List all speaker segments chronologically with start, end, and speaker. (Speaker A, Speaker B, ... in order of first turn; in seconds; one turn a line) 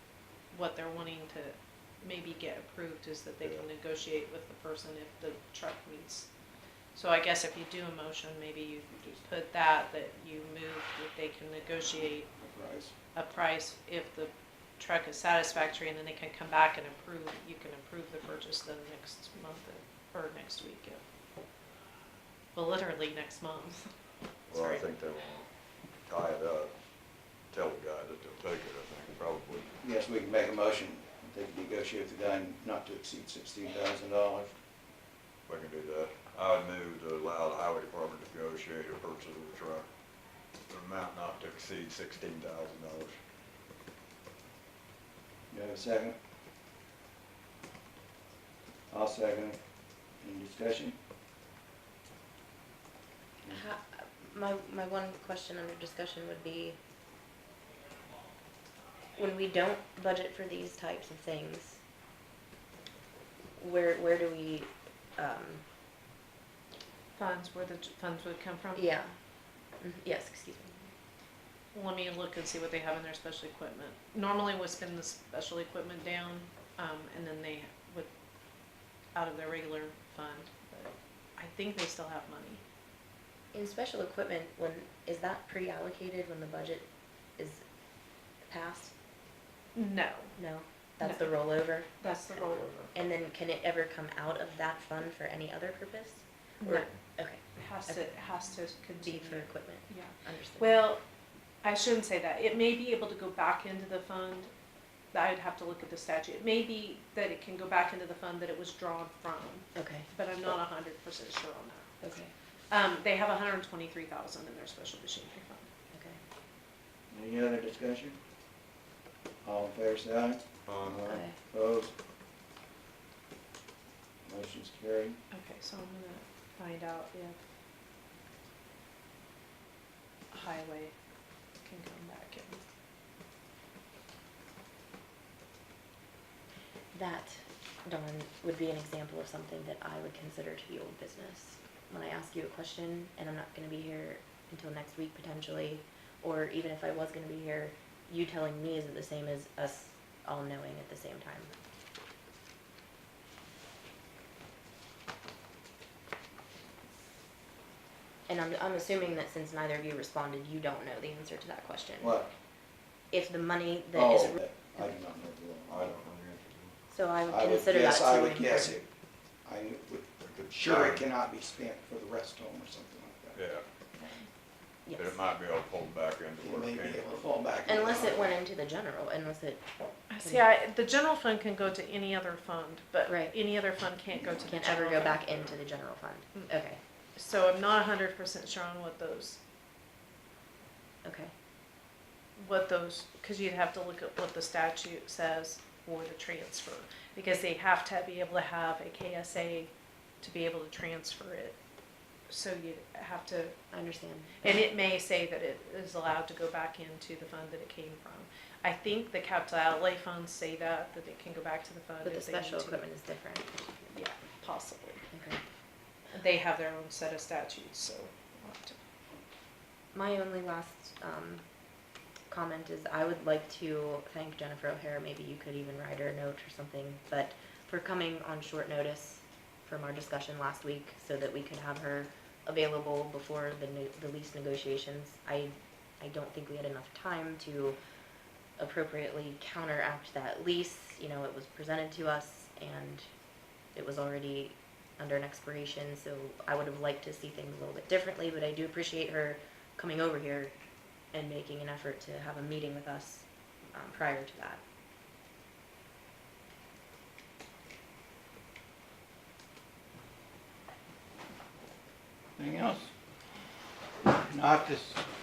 Speaker A: 0.5-6.3
Speaker A: 6.9-12.3
Speaker B: 8.9-9.2
Speaker B: 12.3-12.9
Speaker A: 13.1-21.0
Speaker A: 22.5-23.9
Speaker C: 24.5-25.5
Speaker A: 24.5-24.9
Speaker C: 26.0-26.7
Speaker C: 27.4-29.7
Speaker B: 29.8-34.5
Speaker C: 35.5-39.9
Speaker C: 40.7-43.2
Speaker B: 45.5-46.1
Speaker B: 48.9-49.6
Speaker B: 50.2-51.0
Speaker D: 53.5-56.8
Speaker D: 59.1-61.8
Speaker D: 63.6-65.6
Speaker A: 67.2-68.9
Speaker D: 68.8-69.1
Speaker D: 69.8-70.9
Speaker A: 71.7-78.1
Speaker A: 79.1-82.6
Speaker D: 83.5-87.6
Speaker D: 88.4-88.9
Speaker A: 89.7-90.4
Speaker D: 90.3-98.0
Speaker A: 91.0-91.3
Speaker A: 92.0-92.9
Speaker A: 96.6-96.9
Speaker A: 97.5-101.0
Speaker D: 99.0-100.8
Speaker A: 101.6-104.5
Speaker A: 105.1-111.9
Speaker D: 109.7-110.1
Speaker D: 112.0-112.3
Speaker A: 112.7-115.7
Speaker D: 115.9-116.2
Speaker B: 117.1-118.2
Speaker B: 119.4-121.9
Speaker C: 120.7-121.0
Speaker D: 121.1-121.4
Speaker B: 124.2-125.2
Speaker A: 125.3-127.4
Speaker A: 130.3-130.9
Speaker A: 131.6-132.6
Speaker D: 136.9-151.5
Speaker D: 158.3-162.2
Speaker B: 162.0-162.3
Speaker D: 163.1-164.9
Speaker B: 163.9-166.0
Speaker C: 165.7-166.7
Speaker D: 166.9-168.8
Speaker B: 167.3-168.9
Speaker B: 169.4-173.4
Speaker C: 170.2-171.1
Speaker C: 173.3-173.6
Speaker D: 174.8-175.2
Speaker C: 174.9-177.3
Speaker B: 176.4-178.4
Speaker D: 177.6-179.6
Speaker A: 180.1-185.2
Speaker D: 180.2-180.5
Speaker D: 183.1-183.3
Speaker D: 184.5-186.8
Speaker A: 187.1-189.4
Speaker D: 191.0-191.3
Speaker A: 192.3-201.6
Speaker A: 202.3-203.5
Speaker D: 203.7-204.7
Speaker A: 204.4-212.8
Speaker D: 212.0-213.9
Speaker A: 213.9-215.0
Speaker D: 215.1-215.4
Speaker A: 216.1-218.8
Speaker D: 219.9-221.4
Speaker D: 222.3-237.8
Speaker D: 238.6-243.1
Speaker D: 243.7-250.5
Speaker D: 251.1-254.6
Speaker B: 262.4-262.9
Speaker B: 264.1-265.0